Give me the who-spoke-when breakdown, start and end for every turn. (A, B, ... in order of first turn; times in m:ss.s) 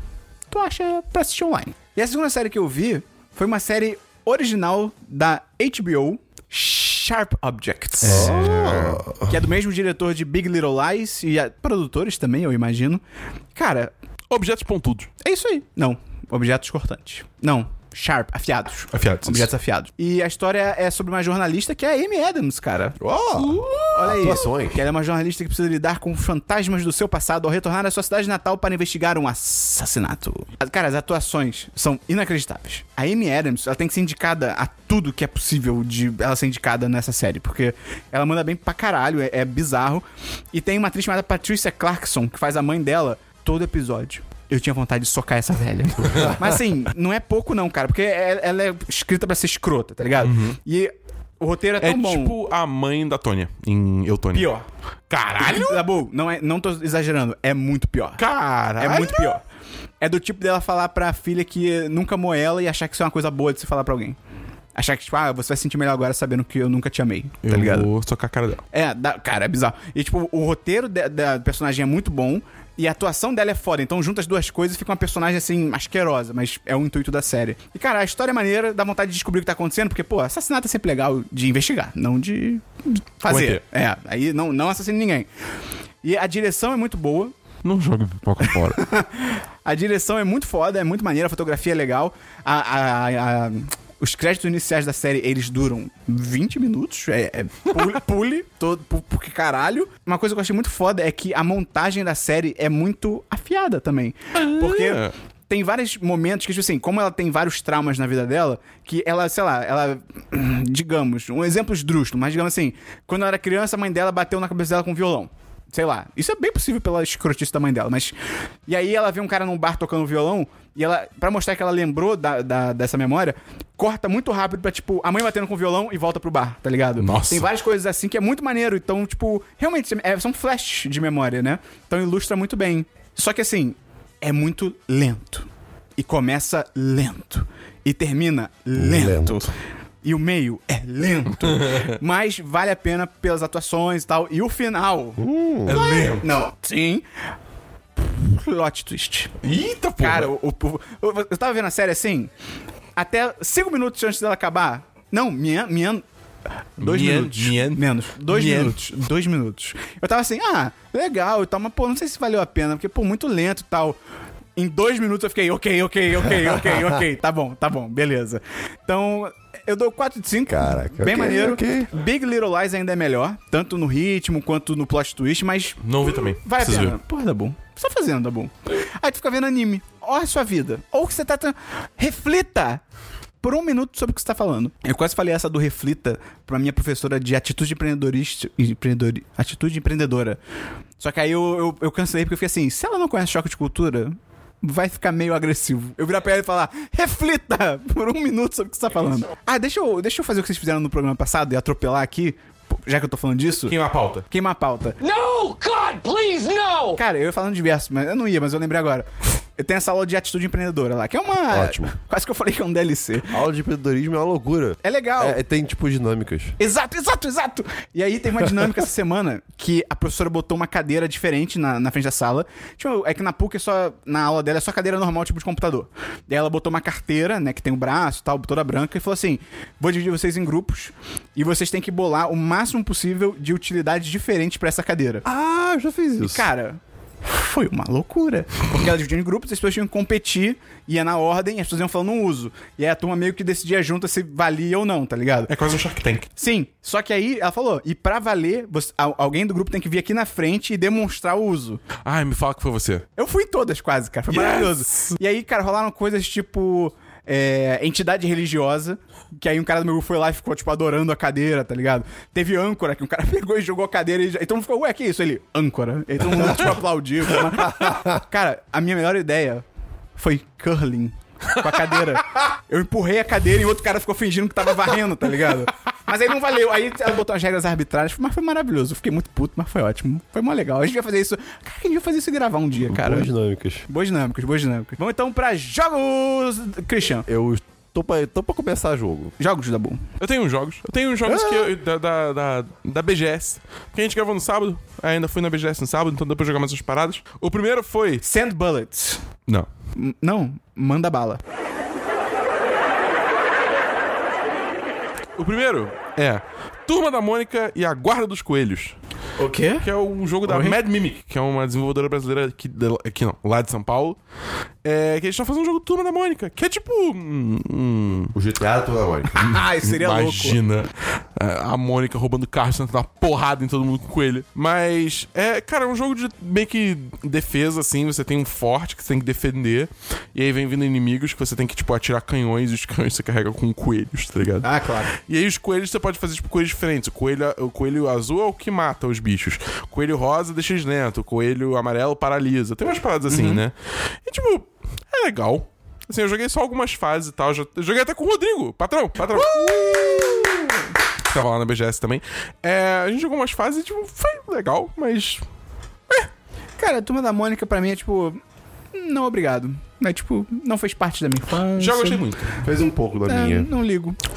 0:00.5-0:08.7 A
0:08.0-0:09.0 B
0:08.0-0:09.3 C
0:09.2-0:13.0 A
0:13.6-0:13.9 A
0:14.3-0:15.1 B
0:15.2-0:23.0 A
0:18.9-0:19.5 B
0:23.0-0:24.8 C
0:23.4-0:24.2 B
0:23.9-0:52.4 A
0:50.2-0:50.6 B
0:51.8-0:54.5 B
0:54.3-0:54.7 A
0:55.1-0:55.8 B
0:55.4-0:58.2 A
0:58.2-0:59.4 B
0:58.8-0:59.4 A
1:00.0-1:04.2 A
1:04.8-1:07.9 A
1:07.4-1:08.6 B
1:08.7-1:25.3 A
1:23.3-1:23.6 B
1:26.0-1:27.3 A
1:27.6-1:28.8 B
1:28.4-1:58.2 A
1:44.4-1:45.1 B
1:58.7-2:19.5 A
2:07.0-2:07.5 B
2:18.8-2:19.4 C
2:20.0-2:27.0 A
2:21.4-2:22.0 B
2:25.2-2:25.9 C
2:25.7-2:26.3 B
2:28.0-2:29.3 A
2:29.4-2:30.3 B
2:30.0-2:32.3 A
2:33.0-2:36.0 A
2:36.8-2:44.0 A
2:36.8-2:38.8 B
2:44.6-3:02.8 A
2:46.4-2:46.9 C
2:50.5-2:51.9 C
2:55.8-2:57.0 B
3:03.4-3:10.4 A
3:11.0-3:23.8 A
3:23.7-3:24.3 B
3:24.3-3:25.0 A
3:25.0-3:27.0 D
3:27.0-3:33.4 A
3:31.5-3:31.9 C
3:33.3-3:36.6 C
3:34.8-3:35.4 A
3:36.6-3:55.2 A
3:55.2-3:56.5 C
3:56.2-4:05.5 A
4:05.5-4:06.3 B
4:06.4-4:11.8 A
4:12.0-4:13.1 B
4:13.2-4:29.6 A
4:14.3-4:15.1 B
4:27.6-4:28.2 C
4:30.2-4:43.3 A
4:42.9-4:43.9 C
4:43.9-4:47.3 A
4:47.3-4:49.3 C
4:49.4-4:50.0 A
4:50.2-4:58.2 B
4:51.3-4:51.6 C
4:58.2-4:59.2 A
5:00.0-5:01.4 A
5:05.4-5:09.0 B
5:09.4-5:09.9 A
5:09.8-5:14.2 B
5:10.4-5:10.8 A
5:14.8-5:18.4 B
5:18.3-5:19.4 C
5:19.3-5:20.6 A
5:19.4-5:50.7 B
5:34.6-5:35.1 A
5:43.3-5:43.6 A
5:49.3-5:50.9 A
5:51.3-5:55.4 B
5:56.8-5:58.4 A
5:58.9-6:02.3 A
6:01.8-6:02.6 B
6:02.6-6:03.7 C
6:03.2-6:04.2 A